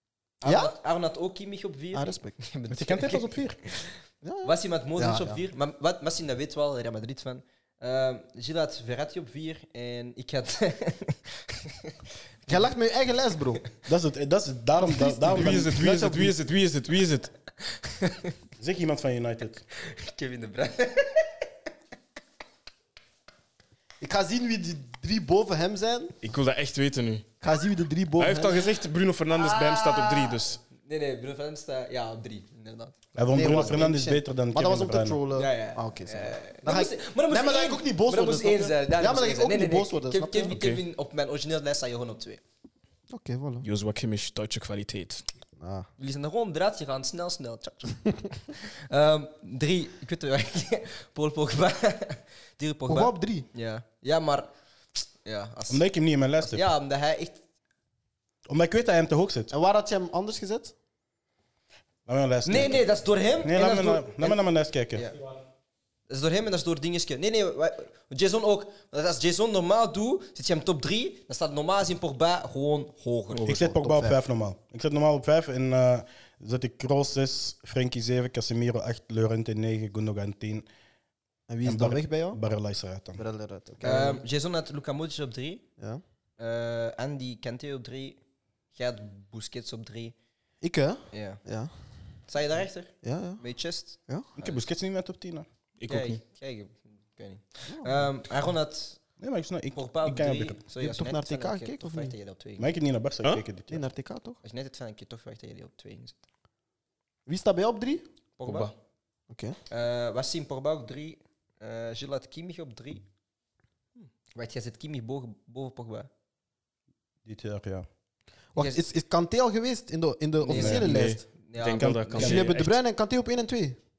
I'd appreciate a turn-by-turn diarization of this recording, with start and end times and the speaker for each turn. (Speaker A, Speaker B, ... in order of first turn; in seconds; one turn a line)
Speaker A: 0.4-11.9
Speaker B: 0.4-0.8
Speaker B: 1.9-2.4
Speaker C: 2.7-3.6
Speaker B: 4.2-5.4
Speaker B: 12.5-13.6
Speaker C: 13.9-16.3
Speaker D: 14.9-17.3
Speaker A: 17.7-18.3
Speaker C: 18.6-19.6
Speaker A: 19.8-21.4
Speaker B: 24.0-26.1
Speaker D: 26.2-27.2
Speaker B: 27.4-28.6
Speaker D: 28.2-30.6
Speaker A: 29.3-33.0
Speaker C: 33.1-35.2
Speaker B: 33.3-40.6
Speaker A: 35.3-42.4
Speaker D: 40.5-40.8
Speaker B: 43.1-43.7
Speaker D: 43.6-45.2
Speaker B: 45.6-45.9
Speaker A: 46.0-54.5
Speaker B: 52.9-53.5
Speaker A: 55.2-55.8
Speaker C: 55.7-56.7
Speaker A: 56.4-57.4
Speaker C: 58.5-59.5
Speaker B: 59.5-60.7
Speaker C: 62.1-62.8
Speaker A: 62.5-64.4
Speaker C: 63.4-65.1
Speaker A: 64.9-65.2
Speaker A: 66.1-73.6
Speaker D: 73.3-73.6
Speaker C: 73.5-80.7
Speaker B: 73.6-74.2
Speaker B: 81.5-82.4
Speaker C: 81.7-83.2
Speaker B: 83.2-84.2
Speaker A: 83.8-85.7
Speaker A: 86.4-88.2
Speaker A: 88.7-90.2
Speaker B: 90.6-91.7
Speaker A: 91.1-91.4
Speaker A: 92.3-94.6
Speaker B: 93.0-93.4
Speaker C: 94.4-95.5
Speaker D: 95.8-96.2
Speaker A: 95.9-99.0
Speaker B: 97.7-98.1
Speaker C: 99.2-100.6
Speaker A: 99.7-102.7
Speaker B: 100.8-102.2
Speaker C: 102.6-103.8
Speaker B: 103.7-104.4
Speaker A: 104.4-106.2
Speaker B: 107.3-108.0
Speaker A: 108.4-108.7
Speaker D: 108.5-108.7
Speaker B: 109.3-109.6
Speaker A: 109.7-113.0
Speaker A: 114.3-116.1
Speaker C: 117.3-117.9
Speaker B: 118.5-121.2
Speaker A: 118.6-118.8
Speaker A: 120.4-122.3
Speaker C: 120.5-120.9
Speaker D: 120.8-122.8
Speaker C: 121.8-122.5
Speaker B: 122.2-123.8